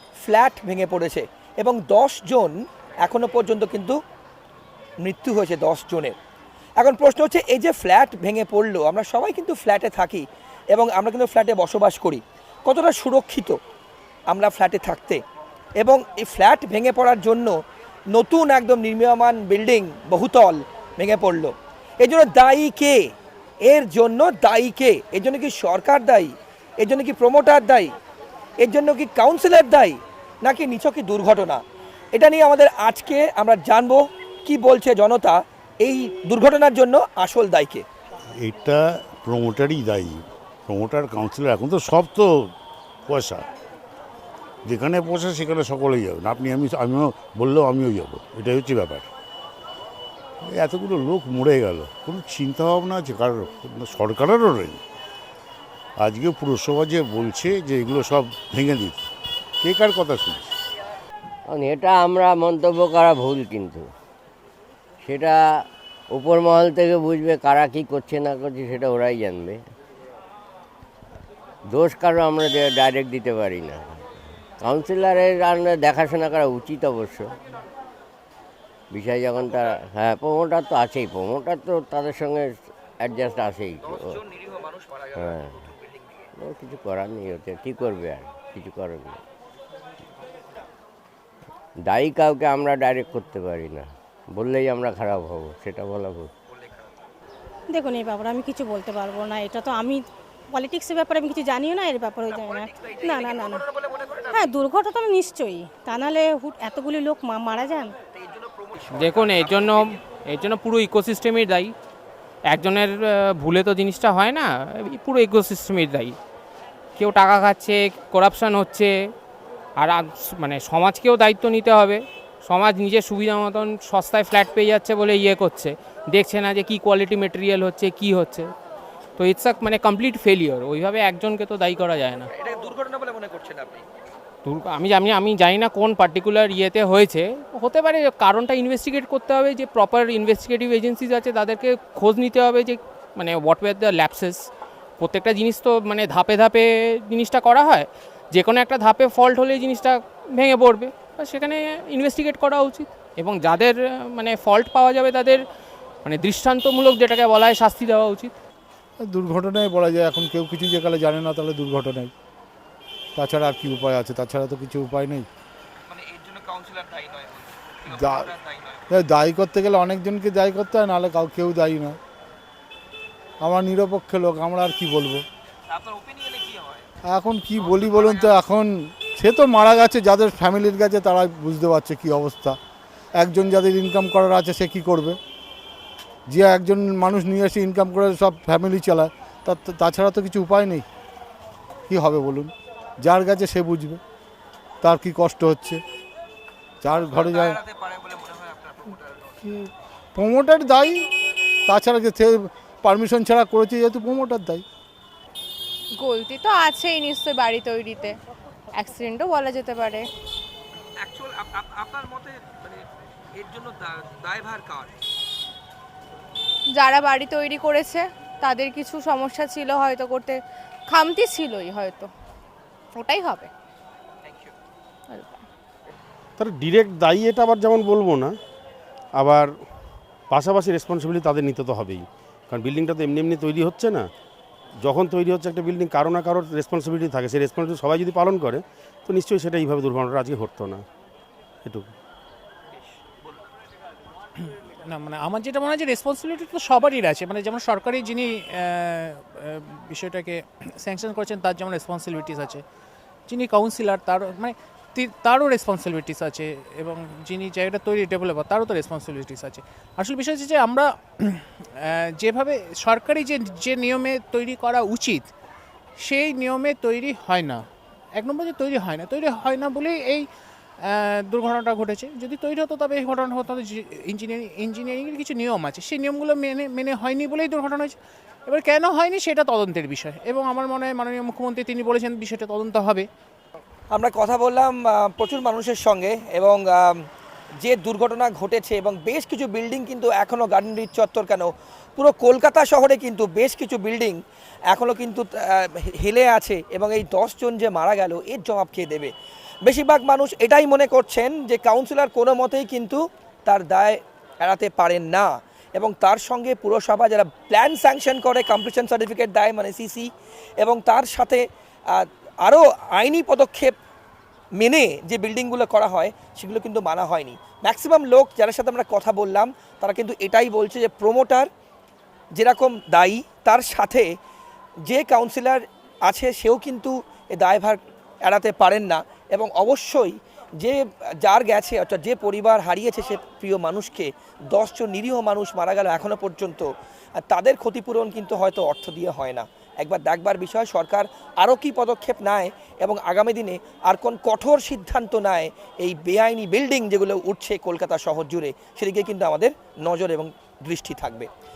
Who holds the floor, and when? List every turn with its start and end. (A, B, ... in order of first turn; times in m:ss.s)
0:00.3-0:04.0 A
0:05.0-0:06.1 A
0:06.8-0:13.6 A
0:14.3-0:15.2 A
0:15.8-0:17.5 A
0:18.1-0:23.0 A
0:23.7-0:27.9 A
0:28.6-0:31.6 A
0:32.1-0:37.8 A
0:38.4-0:42.5 B
0:43.1-0:43.5 B
0:44.6-0:49.1 B
0:50.4-0:54.8 B
0:56.0-0:59.0 B
0:59.6-1:00.6 B
1:01.5-1:03.9 C
1:05.0-1:05.4 C
1:06.1-1:09.6 C
1:11.7-1:14.1 C
1:14.6-1:17.3 C
1:18.9-1:24.3 C
1:24.0-1:26.3 A
1:25.2-1:25.7 C
1:26.4-1:29.2 C
1:31.8-1:36.3 C
1:37.7-1:43.6 D
1:42.3-1:44.5 A
1:44.3-1:48.0 D
1:48.1-1:50.0 A
1:48.9-1:51.7 E
1:52.5-1:56.2 E
1:57.0-1:58.9 E
1:59.8-2:08.5 E
2:09.2-2:12.3 E
2:12.4-2:13.8 A
2:14.4-2:24.5 E
2:25.0-2:35.4 E
2:36.0-2:38.3 E
2:39.0-2:42.1 F
2:43.2-2:45.3 F
2:45.9-2:48.8 A
2:47.9-2:48.3 F
2:48.9-2:52.0 F
2:53.4-2:55.2 F
2:55.7-2:56.8 A
2:57.1-3:02.6 F
2:57.6-2:58.3 A
3:03.2-3:05.2 F
3:06.3-3:10.8 F
3:11.9-3:14.0 F
3:14.8-3:15.8 F
3:16.8-3:17.6 F
3:17.1-3:19.1 A
3:19.5-3:21.0 F
3:21.7-3:24.6 F
3:26.0-3:28.2 G
3:28.8-3:30.1 G
3:31.0-3:34.9 A
3:36.7-3:42.1 G
3:42.9-3:43.5 G
3:45.1-3:45.4 G
3:46.4-3:48.3 H
3:49.2-3:49.5 H
3:50.3-3:54.1 H
3:54.8-4:00.8 H
4:01.7-4:01.9 H
4:04.4-4:12.6 I
4:13.3-4:25.3 I
4:26.0-4:27.6 I
4:28.1-4:30.3 I
4:30.8-4:38.0 I
4:38.5-4:43.1 I
4:43.9-4:47.0 A
4:47.6-4:54.2 A
4:54.7-4:59.1 A
4:59.6-5:10.1 A
5:10.6-5:13.7 A
5:14.6-5:21.5 A
5:22.4-5:24.1 A
5:24.9-5:36.7 A
5:37.2-5:51.3 A